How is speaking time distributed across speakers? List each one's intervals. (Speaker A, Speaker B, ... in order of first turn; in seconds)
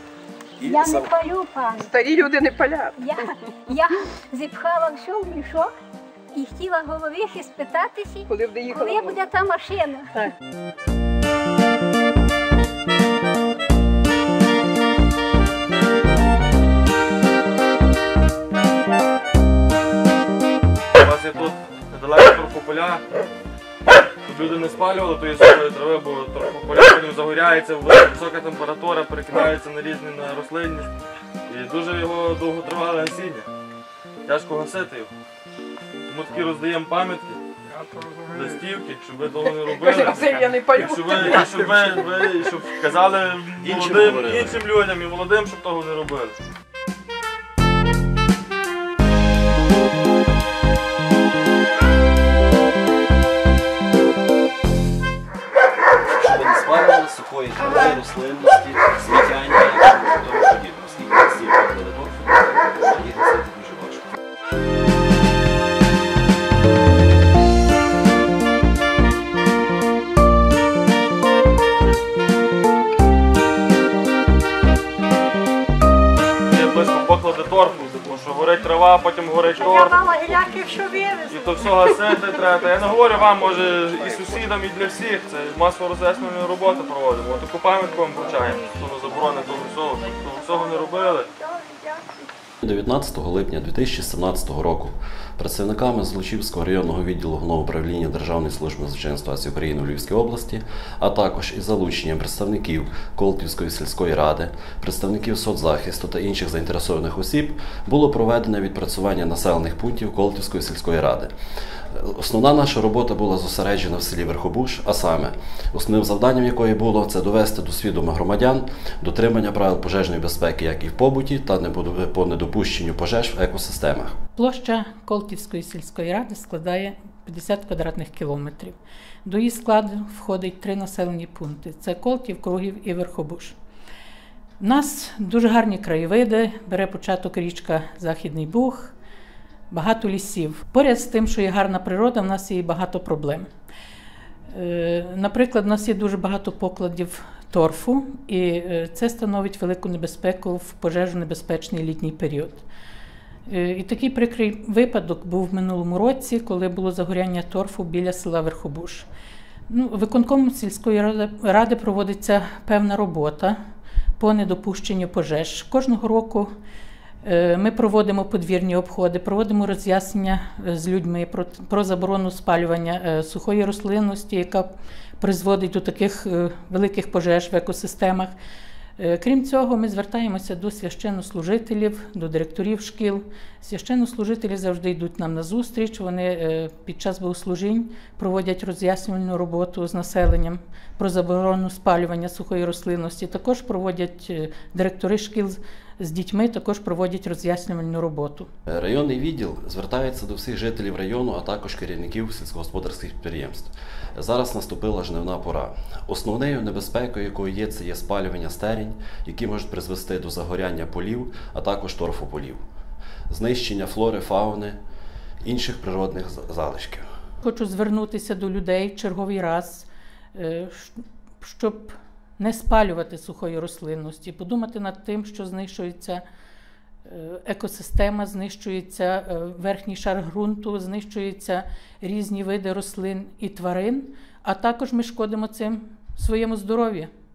Speaker A: 0.6-2.4, 3.0-5.7, 6.3-10.1, 79.6-81.5, 91.3-92.1
Speaker B: 0.6-1.1, 43.6-44.6, 56.1-64.1, 83.2-84.4, 92.6-111.3, 111.9-124.2, 198.7-212.6, 213.3-214.8, 215.4-217.1
Speaker C: 1.8-3.0, 8.3-9.2, 39.6-42.0
Speaker D: 21.0-23.0, 24.2-30.9, 31.5-33.5, 34.2-35.1, 36.1-37.4, 38.3-46.4, 76.4-80.5, 81.3-91.3
Speaker E: 124.3-133.6, 134.6-138.9, 139.7-143.5, 144.5-152.6, 153.5-159.1, 159.7-163.6, 164.2-166.5, 167.2-178.3, 179.0-198.5, 217.4-226.2, 227.0-237.1